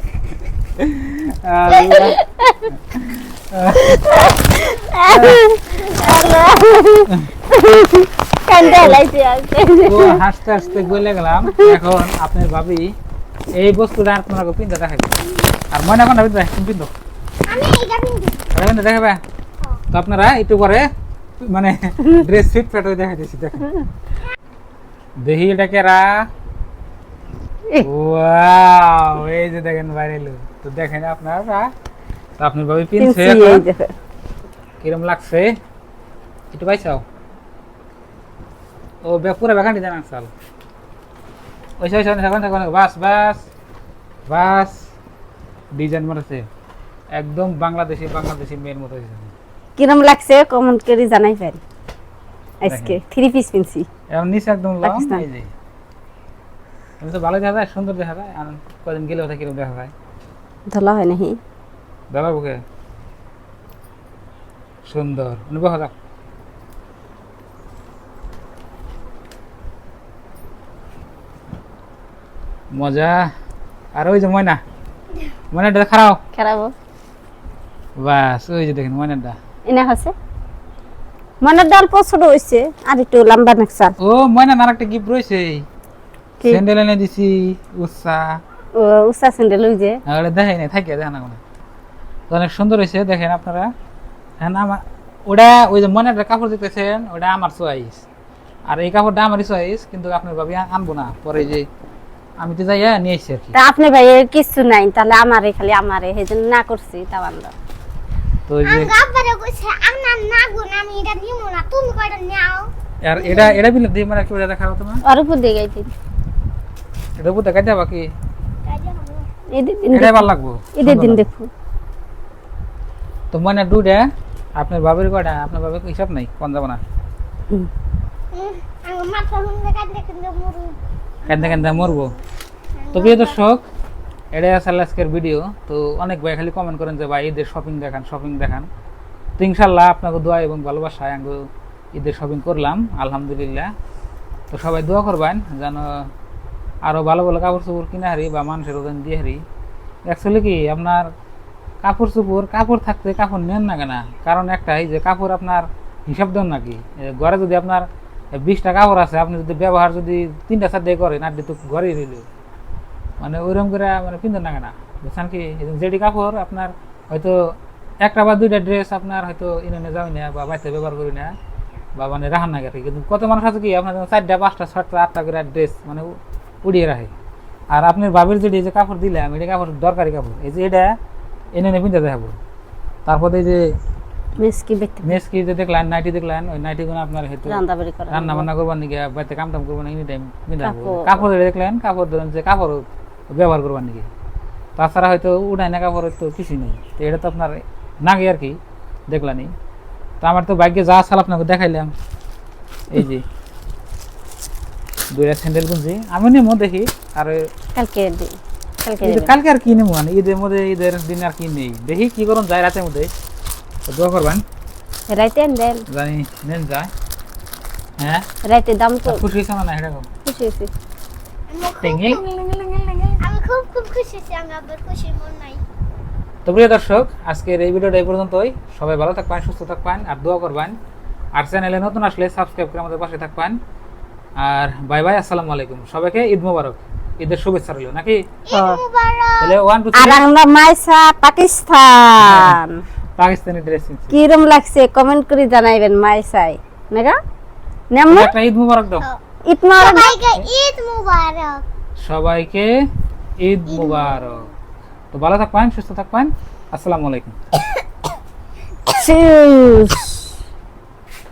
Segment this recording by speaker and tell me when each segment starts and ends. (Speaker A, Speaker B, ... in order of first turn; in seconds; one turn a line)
Speaker A: 0.8-2.2
Speaker B: 1.7-2.6
Speaker A: 2.7-4.3
Speaker B: 3.8-10.2
Speaker A: 5.0-5.4
Speaker A: 8.6-9.0
Speaker A: 9.8-12.9
Speaker A: 13.6-15.1
Speaker A: 15.7-16.9
Speaker C: 17.4-18.4
Speaker A: 18.5-19.2
Speaker A: 19.9-20.9
Speaker A: 21.4-23.7
Speaker A: 25.2-26.3
Speaker A: 27.8-31.7
Speaker A: 32.4-33.6
Speaker B: 33.0-33.9
Speaker A: 34.8-35.5
Speaker A: 36.5-37.0
Speaker A: 39.0-40.3
Speaker A: 41.8-43.4
Speaker A: 44.3-44.8
Speaker A: 45.8-46.5
Speaker A: 47.2-49.3
Speaker B: 49.8-51.6
Speaker B: 52.6-53.9
Speaker A: 52.7-53.0
Speaker A: 54.1-55.5
Speaker B: 54.8-55.2
Speaker A: 57.0-59.9
Speaker B: 60.7-61.4
Speaker A: 62.1-62.6
Speaker A: 64.8-65.9
Speaker A: 72.7-73.3
Speaker A: 74.0-74.6
Speaker A: 75.5-76.2
Speaker B: 76.3-76.7
Speaker A: 78.0-79.4
Speaker B: 79.7-80.1
Speaker B: 81.4-84.0
Speaker A: 84.0-85.7
Speaker A: 86.5-88.3
Speaker B: 88.8-90.0
Speaker A: 90.1-91.4
Speaker A: 92.3-93.7
Speaker A: 94.4-98.0
Speaker A: 98.7-101.7
Speaker A: 102.4-103.5
Speaker B: 103.5-107.5
Speaker A: 108.5-109.0
Speaker C: 108.7-113.6
Speaker A: 113.0-115.0
Speaker B: 115.0-115.9
Speaker A: 117.2-118.1
Speaker C: 118.7-119.3
Speaker B: 119.5-121.5
Speaker A: 119.9-121.3
Speaker A: 123.3-124.0
Speaker A: 124.6-126.8
Speaker C: 128.3-132.2
Speaker A: 131.3-132.2
Speaker C: 132.8-133.4
Speaker A: 132.9-133.6
Speaker A: 134.3-138.7
Speaker A: 139.4-141.4
Speaker A: 141.9-143.7
Speaker A: 144.5-146.1
Speaker A: 146.8-149.4
Speaker A: 150.1-151.1
Speaker A: 151.8-162.2
Speaker A: 163.2-167.4
Speaker A: 168.0-171.3
Speaker A: 172.0-176.1
Speaker A: 176.6-177.1
Speaker A: 177.7-180.9
Speaker A: 181.6-182.4
Speaker A: 183.1-183.7
Speaker B: 184.4-185.2
Speaker A: 185.0-194.1
Speaker B: 187.5-188.5
Speaker B: 190.6-191.2
Speaker A: 194.8-198.6
Speaker A: 199.1-199.5
Speaker A: 200.2-201.9
Speaker A: 202.9-203.2
Speaker A: 205.1-207.4
Speaker B: 207.8-209.3
Speaker A: 209.0-213.1
Speaker A: 213.9-214.4
Speaker B: 215.1-215.8
Speaker A: 215.9-216.9
Speaker A: 218.0-218.3
Speaker B: 218.4-219.2
Speaker A: 219.1-220.1
Speaker B: 220.2-220.7
Speaker C: 221.5-225.6
Speaker A: 221.8-222.2
Speaker A: 226.4-230.8
Speaker A: 231.3-233.6
Speaker A: 234.4-238.2
Speaker C: 238.5-239.5
Speaker B: 238.5-238.8
Speaker A: 239.4-240.2
Speaker B: 240.0-242.8
Speaker A: 242.2-242.6
Speaker A: 243.2-244.2
Speaker B: 244.1-247.2
Speaker B: 247.9-248.3
Speaker A: 248.1-249.1
Speaker B: 249.5-250.4
Speaker C: 249.8-251.6
Speaker A: 252.0-252.7
Speaker A: 253.4-254.5
Speaker C: 253.7-254.5
Speaker A: 255.1-257.4
Speaker B: 258.9-260.3